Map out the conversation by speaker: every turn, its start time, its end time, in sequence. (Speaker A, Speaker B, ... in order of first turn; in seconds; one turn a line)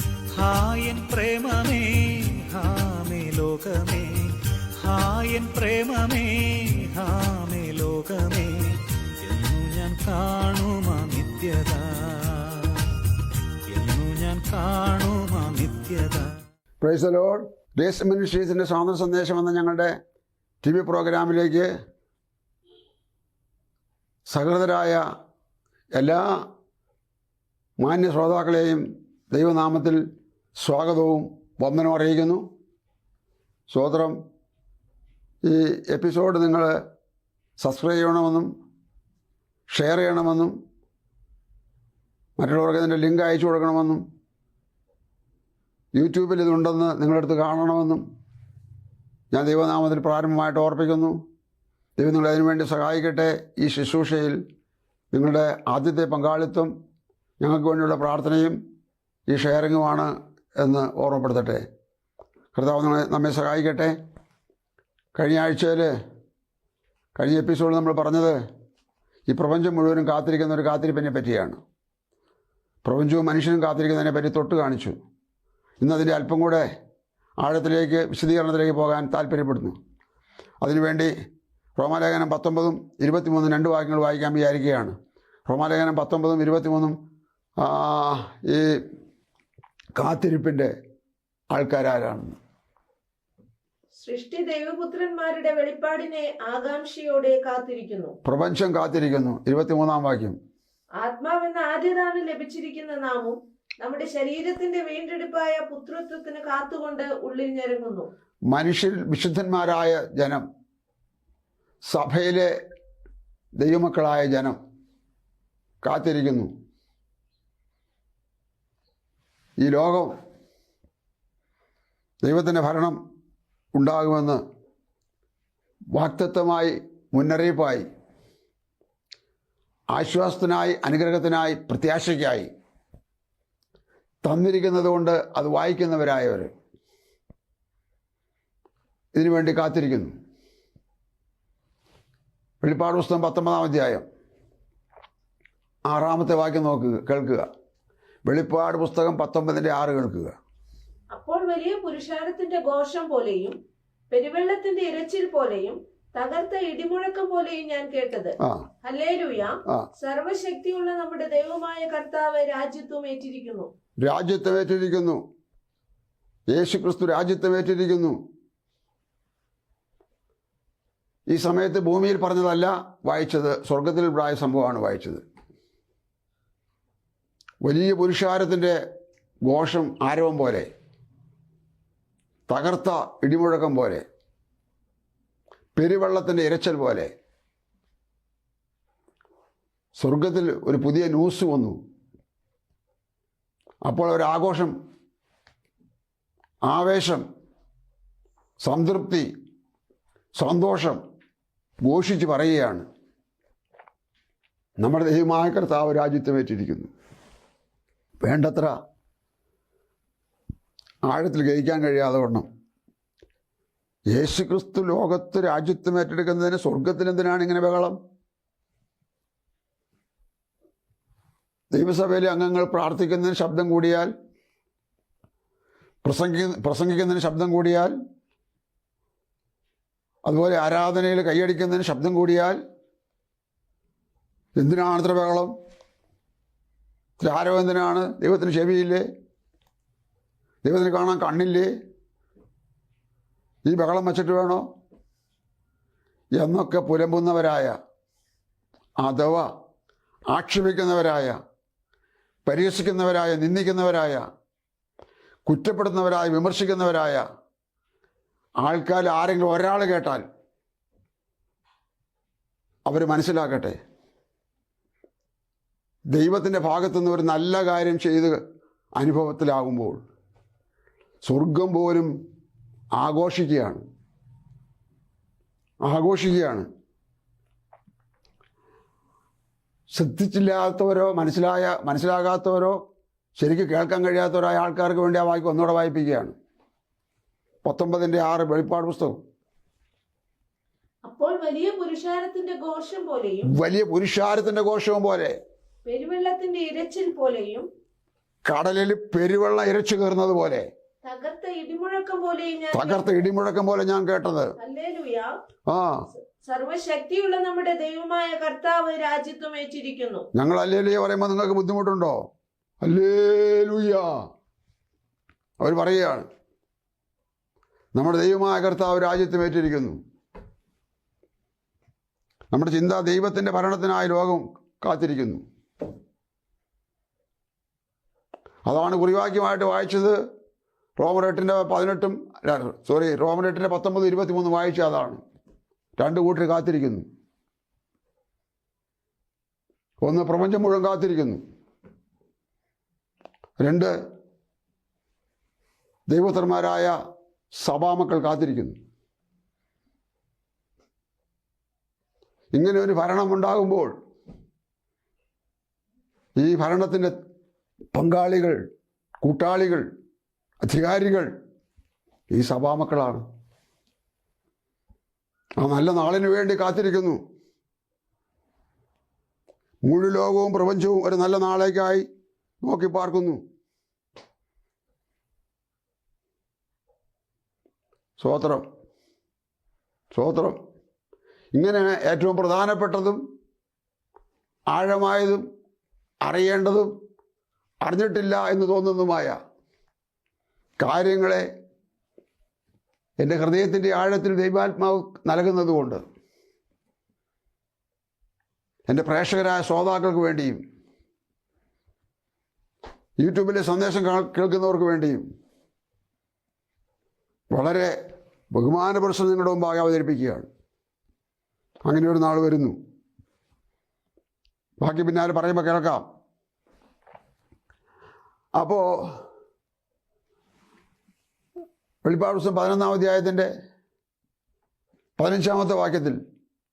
Speaker A: 0.3-12.9
Speaker A: 13.7-16.3
Speaker B: 16.8-20.0
Speaker B: 20.6-21.7
Speaker B: 24.3-25.0
Speaker B: 25.9-26.5
Speaker B: 27.8-30.0
Speaker B: 30.6-32.4
Speaker B: 33.7-34.2
Speaker B: 35.4-36.8
Speaker B: 37.6-38.5
Speaker B: 39.7-40.5
Speaker B: 42.4-44.0
Speaker B: 45.9-48.0
Speaker B: 49.3-51.2
Speaker B: 52.0-54.4
Speaker B: 55.1-56.7
Speaker B: 57.4-58.6
Speaker B: 59.3-61.6
Speaker B: 62.5-64.0
Speaker B: 65.1-65.9
Speaker B: 67.2-68.4
Speaker B: 69.3-71.6
Speaker B: 72.8-75.0
Speaker B: 75.8-76.7
Speaker B: 77.4-79.8
Speaker B: 80.6-81.1
Speaker B: 81.8-84.9
Speaker B: 85.5-87.0
Speaker B: 87.6-88.8
Speaker B: 89.9-90.7
Speaker B: 91.5-92.4
Speaker C: 94.0-98.2
Speaker B: 98.2-100.4
Speaker C: 101.0-108.1
Speaker B: 108.5-110.5
Speaker B: 111.9-112.5
Speaker B: 113.6-114.6
Speaker B: 115.8-116.5
Speaker B: 119.6-120.1
Speaker B: 122.2-123.0
Speaker B: 123.7-124.4
Speaker B: 125.9-127.9
Speaker B: 129.9-132.5
Speaker B: 134.2-136.5
Speaker B: 139.1-140.1
Speaker B: 142.6-144.1
Speaker B: 145.9-147.5
Speaker B: 148.2-150.3
Speaker C: 151.1-153.5
Speaker C: 154.1-163.7
Speaker B: 164.0-165.2
Speaker B: 166.5-168.2
Speaker B: 171.3-175.2
Speaker B: 177.6-178.8
Speaker B: 179.4-180.7
Speaker B: 182.5-184.0
Speaker B: 185.7-187.1
Speaker B: 189.9-191.8
Speaker B: 193.8-194.7
Speaker B: 196.7-197.2
Speaker B: 198.6-199.3
Speaker B: 200.3-201.0
Speaker B: 201.8-202.8
Speaker B: 204.8-206.9
Speaker B: 208.2-208.7
Speaker B: 211.1-212.4
Speaker B: 214.1-218.0
Speaker B: 221.7-224.1
Speaker B: 226.0-227.9
Speaker B: 230.2-232.6
Speaker B: 234.6-235.5
Speaker B: 237.2-239.1
Speaker B: 240.6-241.7
Speaker B: 243.7-244.6
Speaker B: 246.4-247.7
Speaker B: 249.0-249.5
Speaker B: 250.3-251.4
Speaker B: 252.4-254.2
Speaker B: 255.4-257.2
Speaker B: 258.6-260.2
Speaker B: 262.9-263.8
Speaker B: 266.1-268.4
Speaker B: 268.9-270.0
Speaker B: 271.2-272.1
Speaker B: 273.0-273.8
Speaker B: 275.8-276.7
Speaker B: 279.9-282.8
Speaker B: 283.4-286.3
Speaker B: 287.6-289.2
Speaker C: 291.0-293.5
Speaker B: 293.5-295.4
Speaker C: 295.9-297.6
Speaker B: 298.4-300.7
Speaker C: 301.0-303.2
Speaker B: 302.7-304.5
Speaker C: 304.6-305.3
Speaker B: 305.7-306.0
Speaker C: 306.1-310.2
Speaker B: 310.3-312.3
Speaker B: 312.8-314.2
Speaker B: 315.6-316.3
Speaker B: 317.9-320.0
Speaker B: 322.5-325.4
Speaker B: 328.6-330.2
Speaker B: 331.0-335.2
Speaker B: 336.0-337.0
Speaker B: 340.0-341.4
Speaker B: 343.6-343.9
Speaker B: 346.1-346.9
Speaker B: 347.5-348.8
Speaker B: 352.5-353.9
Speaker B: 356.4-357.1
Speaker B: 357.9-358.6
Speaker B: 359.2-359.9
Speaker B: 360.6-361.3
Speaker B: 362.3-363.2
Speaker B: 365.6-367.2
Speaker B: 369.8-372.1
Speaker B: 372.6-373.4
Speaker B: 378.2-378.6
Speaker B: 380.1-380.6
Speaker B: 381.5-383.2
Speaker B: 384.7-385.4
Speaker B: 386.2-386.9
Speaker B: 387.8-389.3
Speaker B: 390.8-391.4
Speaker B: 393.2-396.0
Speaker B: 398.9-400.6
Speaker B: 403.2-405.2
Speaker B: 407.5-407.9
Speaker B: 408.5-410.5
Speaker B: 411.9-412.8
Speaker B: 414.8-416.0
Speaker B: 418.6-419.2
Speaker B: 422.0-423.5
Speaker B: 425.2-426.2